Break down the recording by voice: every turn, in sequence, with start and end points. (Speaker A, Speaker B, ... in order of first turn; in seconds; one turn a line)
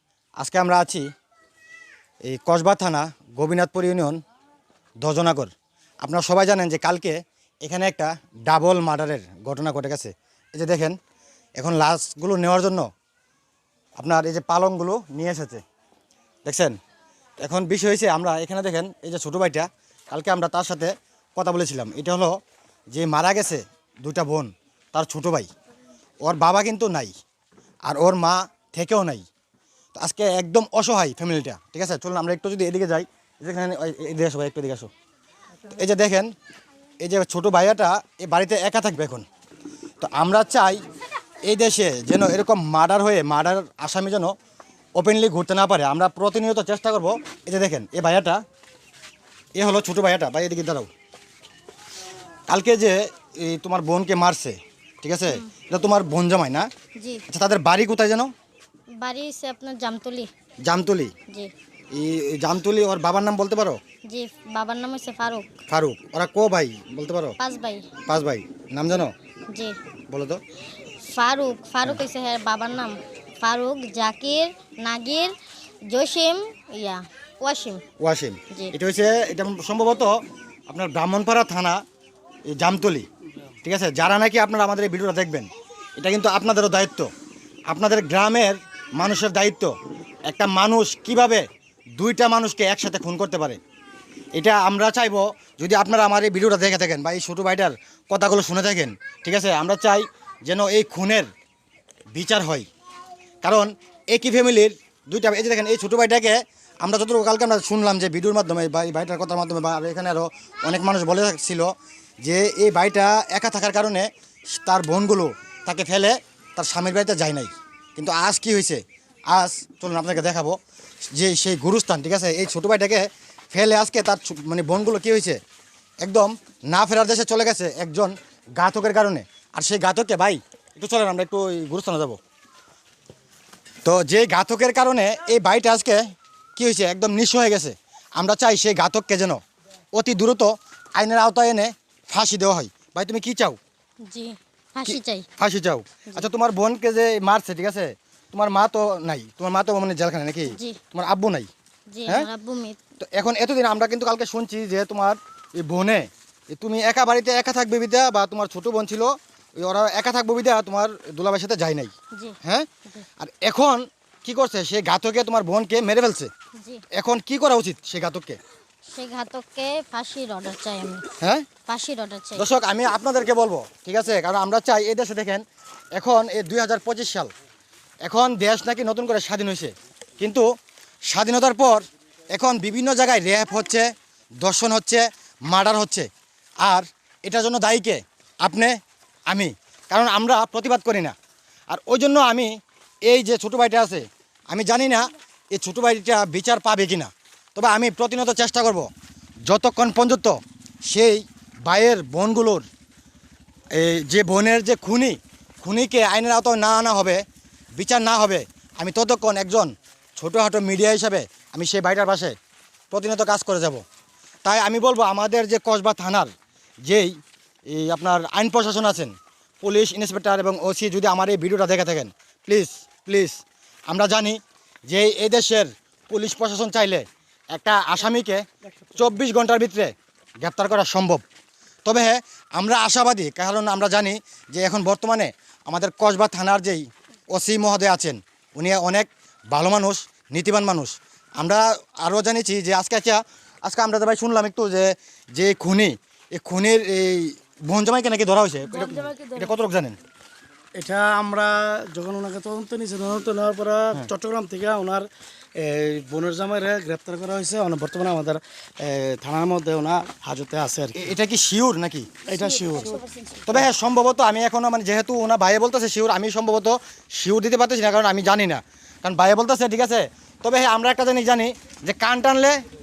Speaker A: 0.4-1.1
Speaker A: 2.2-4.2
Speaker A: 5.0-5.5
Speaker A: 6.0-11.0
Speaker A: 11.6-12.9
Speaker A: 14.0-15.6
Speaker A: 16.4-16.8
Speaker A: 17.4-22.4
Speaker A: 22.9-25.5
Speaker A: 26.2-27.1
Speaker A: 27.9-29.2
Speaker A: 29.9-34.9
Speaker A: 35.8-36.3
Speaker A: 37.0-39.2
Speaker A: 40.0-40.8
Speaker A: 41.4-44.3
Speaker A: 45.0-48.4
Speaker A: 49.5-50.9
Speaker A: 52.5-56.7
Speaker B: 57.0-57.2
Speaker A: 57.3-58.3
Speaker B: 59.0-60.3
Speaker A: 60.6-61.1
Speaker A: 61.9-63.8
Speaker B: 64.1-65.5
Speaker A: 65.7-67.3
Speaker B: 67.4-67.9
Speaker A: 68.0-69.1
Speaker A: 70.1-70.4
Speaker B: 71.1-75.3
Speaker B: 75.9-77.8
Speaker A: 78.0-80.1
Speaker A: 80.7-81.8
Speaker A: 82.5-83.1
Speaker A: 83.6-87.1
Speaker A: 87.7-89.7
Speaker A: 90.3-91.4
Speaker A: 92.0-93.6
Speaker A: 94.3-101.3
Speaker A: 102.1-102.7
Speaker A: 103.4-111.7
Speaker A: 112.2-120.6
Speaker A: 121.1-125.4
Speaker A: 126.0-132.2
Speaker A: 133.8-136.0
Speaker A: 136.6-139.4
Speaker A: 139.9-143.6
Speaker B: 144.1-145.3
Speaker A: 144.9-151.5
Speaker B: 150.5-150.8
Speaker B: 151.9-152.8
Speaker A: 153.0-161.9
Speaker A: 163.2-166.3
Speaker A: 166.9-168.4
Speaker B: 168.9-171.0
Speaker A: 171.2-171.5
Speaker B: 171.7-172.4
Speaker A: 172.3-175.4
Speaker A: 175.9-177.3
Speaker A: 178.0-180.4
Speaker A: 181.1-183.9
Speaker A: 184.4-186.1
Speaker A: 186.6-188.7
Speaker A: 189.3-191.1
Speaker A: 191.7-192.5
Speaker A: 193.1-198.9
Speaker A: 199.5-202.6
Speaker A: 203.8-207.2
Speaker A: 207.8-212.3
Speaker A: 212.9-213.8
Speaker A: 214.4-216.3
Speaker A: 216.8-217.2
Speaker A: 217.7-228.4
Speaker A: 228.9-231.2
Speaker A: 231.8-250.0
Speaker C: 250.8-260.9
Speaker A: 260.9-262.1
Speaker B: 262.2-263.4
Speaker C: 262.3-263.0
Speaker A: 263.4-272.6